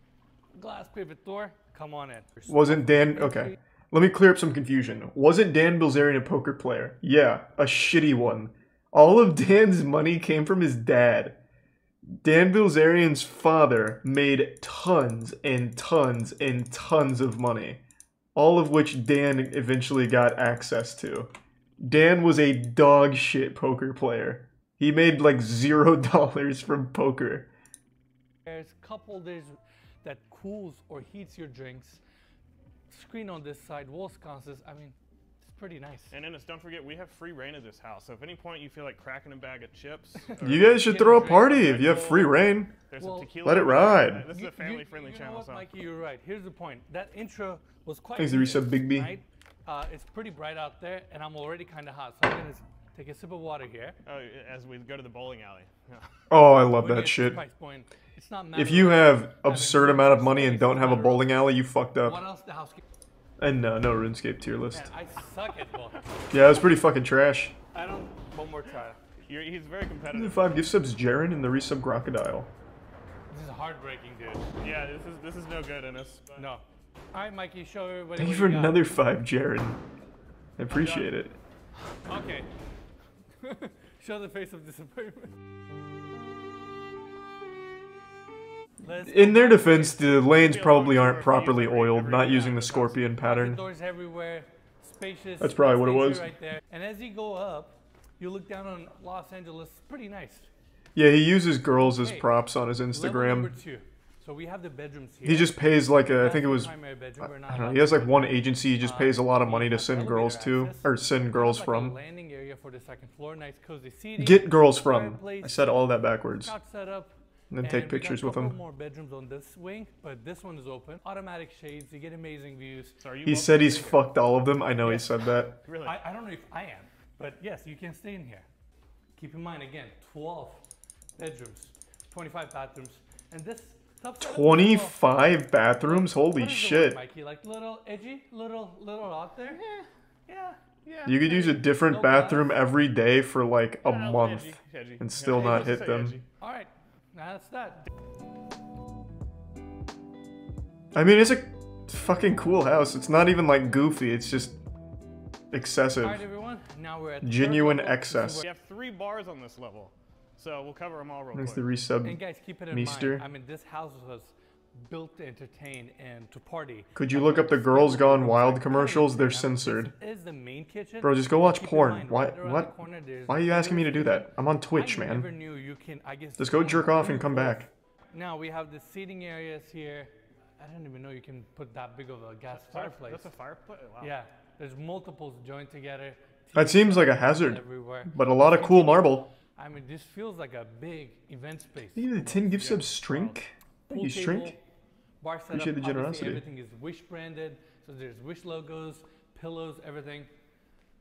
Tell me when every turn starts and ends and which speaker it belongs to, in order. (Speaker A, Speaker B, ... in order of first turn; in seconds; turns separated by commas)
Speaker A: 0.5-3.5, Speaker B: 2.5-11.4, Speaker B: 12.2-17.8, Speaker B: 18.3-21.3, Speaker B: 21.8-27.5, Speaker A: 28.4-32.0, Speaker A: 32.9-36.1, Speaker C: 36.1-45.6, Speaker A: 40.2-41.9, Speaker B: 40.4-42.7, Speaker A: 43.0-54.0, Speaker B: 43.4-44.3, Speaker B: 48.2-49.1, Speaker C: 54.0-56.1, Speaker B: 56.3-57.4, Speaker A: 56.8-61.4, Speaker B: 58.5-62.2, Speaker A: 62.0-62.8, Speaker B: 63.4-64.9, Speaker A: 64.7-66.0, Speaker B: 66.3-67.5, Speaker A: 67.7-69.0, Speaker C: 69.2-70.6, Speaker B: 70.1-72.5, Speaker A: 73.3-74.5, Speaker C: 74.6-76.5, Speaker A: 76.3-78.8, Speaker B: 78.2-79.8, Speaker B: 80.6-81.4, Speaker C: 80.7-81.1, Speaker A: 82.0-82.5, Speaker A: 83.4-85.3, Speaker A: 88.8-90.0, Speaker B: 89.0-93.6, Speaker C: 90.1-93.0, Speaker A: 93.1-100.5, Speaker B: 95.4-96.3, Speaker B: 101.0-103.5, Speaker A: 101.7-102.3, Speaker A: 102.9-105.6, Speaker B: 105.2-112.0, Speaker A: 106.1-123.0, Speaker B: 114.2-116.5, Speaker B: 117.5-118.5, Speaker C: 123.0-124.0, Speaker B: 123.2-125.6, Speaker A: 124.8-125.1, Speaker C: 125.6-126.0, Speaker A: 125.8-128.4, Speaker A: 129.2-130.6, Speaker A: 131.2-139.6, Speaker B: 134.2-137.0, Speaker C: 139.5-139.8, Speaker A: 140.3-140.6, Speaker C: 140.8-141.2, Speaker B: 141.0-146.2, Speaker A: 141.3-142.7, Speaker C: 143.8-146.3, Speaker A: 146.4-147.9, Speaker B: 150.9-154.6, Speaker B: 155.5-156.2, Speaker A: 155.9-158.4, Speaker B: 157.2-158.4, Speaker C: 158.4-161.7, Speaker B: 161.3-163.2, Speaker A: 162.0-164.3, Speaker A: 164.8-183.3, Speaker B: 166.9-169.9, Speaker B: 171.0-175.3, Speaker B: 176.4-177.7, Speaker C: 182.5-184.1, Speaker A: 184.0-192.3, Speaker B: 186.5-189.3, Speaker B: 191.9-194.6, Speaker C: 192.3-193.4, Speaker A: 193.9-194.6, Speaker A: 195.2-200.3, Speaker B: 195.5-196.4